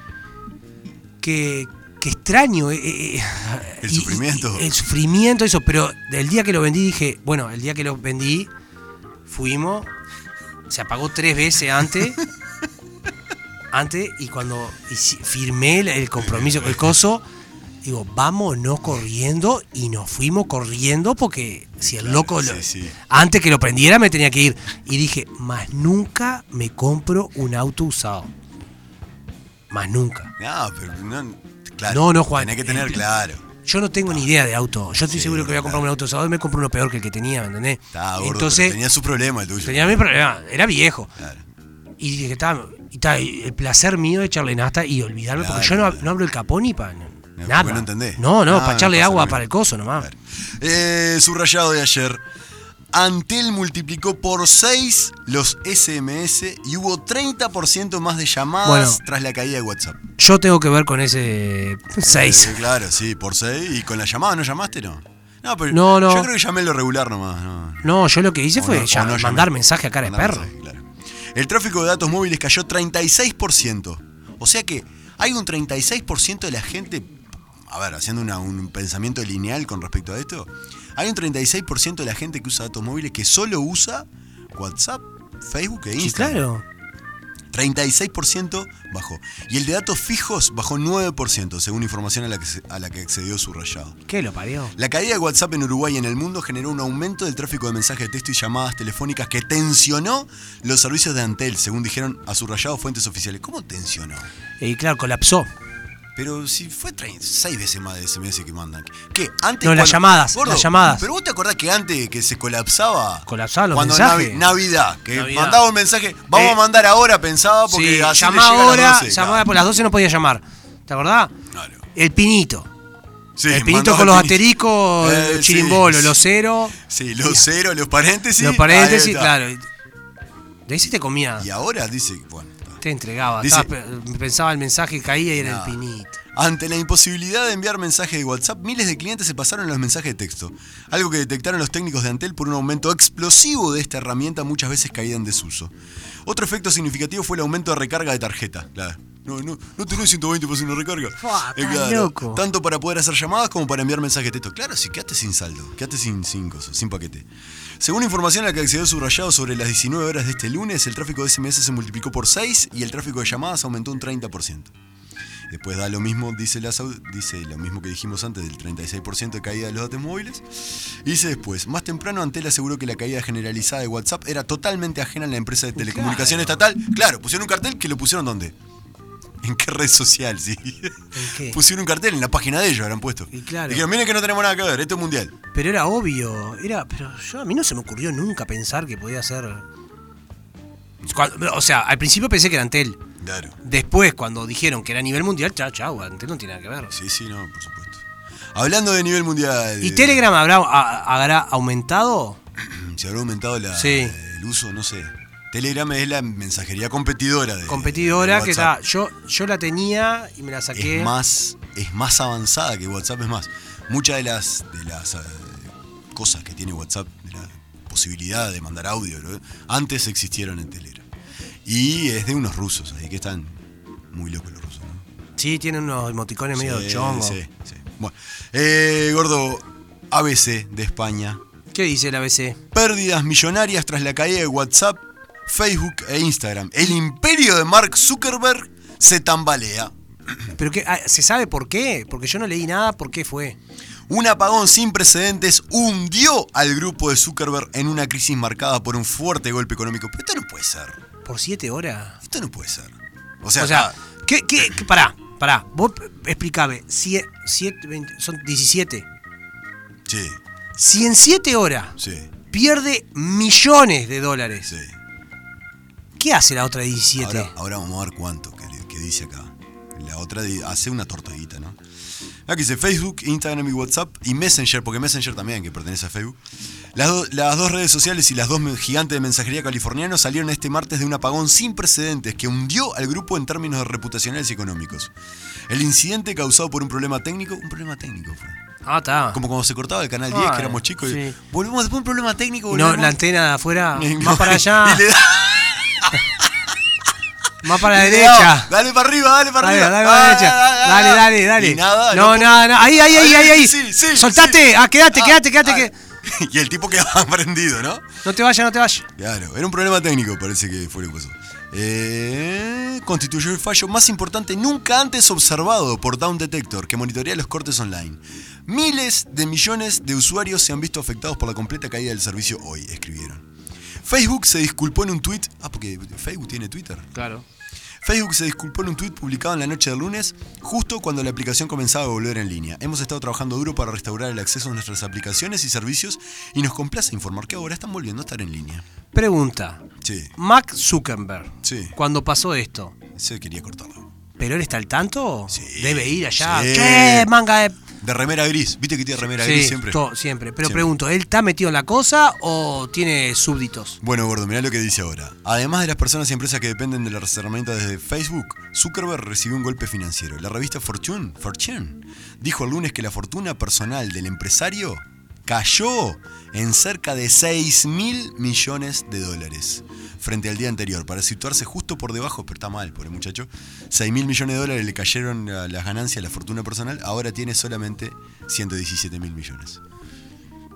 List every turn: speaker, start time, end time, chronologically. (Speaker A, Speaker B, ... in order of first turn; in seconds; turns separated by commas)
Speaker A: 1.2-8.5, Speaker B: 3.8-4.7, Speaker A: 9.2-9.9, Speaker A: 10.7-12.2, Speaker A: 13.7-17.2, Speaker B: 16.2-16.9, Speaker A: 17.8-28.3, Speaker B: 21.8-23.0, Speaker A: 29.7-30.3, Speaker B: 30.4-33.5, Speaker A: 31.9-33.1, Speaker A: 33.6-38.8, Speaker B: 35.0-35.9, Speaker B: 37.9-40.0, Speaker A: 39.6-41.1, Speaker B: 41.2-41.4, Speaker A: 42.0-50.1, Speaker B: 45.3-46.1, Speaker B: 47.4-49.4, Speaker B: 50.0-52.2, Speaker B: 52.9-60.0, Speaker A: 58.6-59.0, Speaker A: 60.2-62.6, Speaker B: 62.0-67.9, Speaker A: 65.7-66.3, Speaker A: 67.8-70.5, Speaker B: 68.5-86.4, Speaker A: 86.0-86.6, Speaker B: 87.5-94.0, Speaker A: 94.1-94.7, Speaker B: 94.8-104.3, Speaker A: 104.6-105.5, Speaker B: 106.2-119.5, Speaker A: 109.6-111.0, Speaker A: 113.3-114.5, Speaker A: 115.1-115.6, Speaker A: 116.3-116.6, Speaker A: 117.7-121.3, Speaker B: 121.5-121.8, Speaker A: 121.9-122.7, Speaker B: 123.4-126.2, Speaker A: 123.5-127.4, Speaker B: 126.8-129.3, Speaker A: 128.4-129.7, Speaker A: 130.7-131.5, Speaker B: 131.4-132.8, Speaker A: 132.8-136.2, Speaker B: 133.4-133.7, Speaker B: 135.3-135.8, Speaker B: 136.3-145.7, Speaker B: 146.2-157.3, Speaker A: 151.2-152.4, Speaker B: 157.8-164.7, Speaker B: 165.5-178.5, Speaker A: 175.8-176.6, Speaker B: 179.4-185.3, Speaker A: 181.1-181.6, Speaker A: 183.3-183.8, Speaker A: 185.5-189.7, Speaker A: 191.1-193.0, Speaker B: 193.2-193.6, Speaker A: 193.6-196.9, Speaker B: 196.9-200.2, Speaker A: 199.8-202.4, Speaker B: 202.6-208.7, Speaker A: 203.7-204.2, Speaker A: 207.7-211.1, Speaker B: 210.7-221.1, Speaker B: 221.6-223.6, Speaker B: 224.1-225.0, Speaker A: 225.4-227.4, Speaker B: 226.5-231.4, Speaker A: 231.7-232.6, Speaker B: 232.7-240.5, Speaker A: 240.6-243.6, Speaker B: 244.1-251.0, Speaker A: 251.2-252.2, Speaker B: 252.2-253.9, Speaker A: 253.6-259.1, Speaker B: 260.1-260.4, Speaker A: 260.8-262.0, Speaker B: 262.0-262.3, Speaker A: 262.5-264.7, Speaker B: 264.7-264.9, Speaker A: 266.2-267.5, Speaker B: 267.2-271.8, Speaker B: 272.4-276.4, Speaker B: 276.9-285.1, Speaker B: 285.7-288.6, Speaker A: 288.8-289.4, Speaker B: 289.3-293.2, Speaker A: 290.3-291.4, Speaker A: 292.7-295.0, Speaker B: 293.9-296.5, Speaker A: 297.6-298.7, Speaker B: 297.7-308.1, Speaker A: 299.6-305.9, Speaker A: 308.2-309.1, Speaker B: 309.2-323.4, Speaker B: 324.0-327.1, Speaker A: 327.1-327.4, Speaker B: 328.0-338.8, Speaker A: 339.1-339.8, Speaker B: 340.0-340.3, Speaker A: 340.4-342.9, Speaker B: 341.6-341.9, Speaker B: 343.1-344.1, Speaker A: 344.4-347.8, Speaker B: 345.5-347.3, Speaker B: 348.0-350.0, Speaker A: 349.3-354.0, Speaker B: 350.6-350.9, Speaker B: 354.0-379.8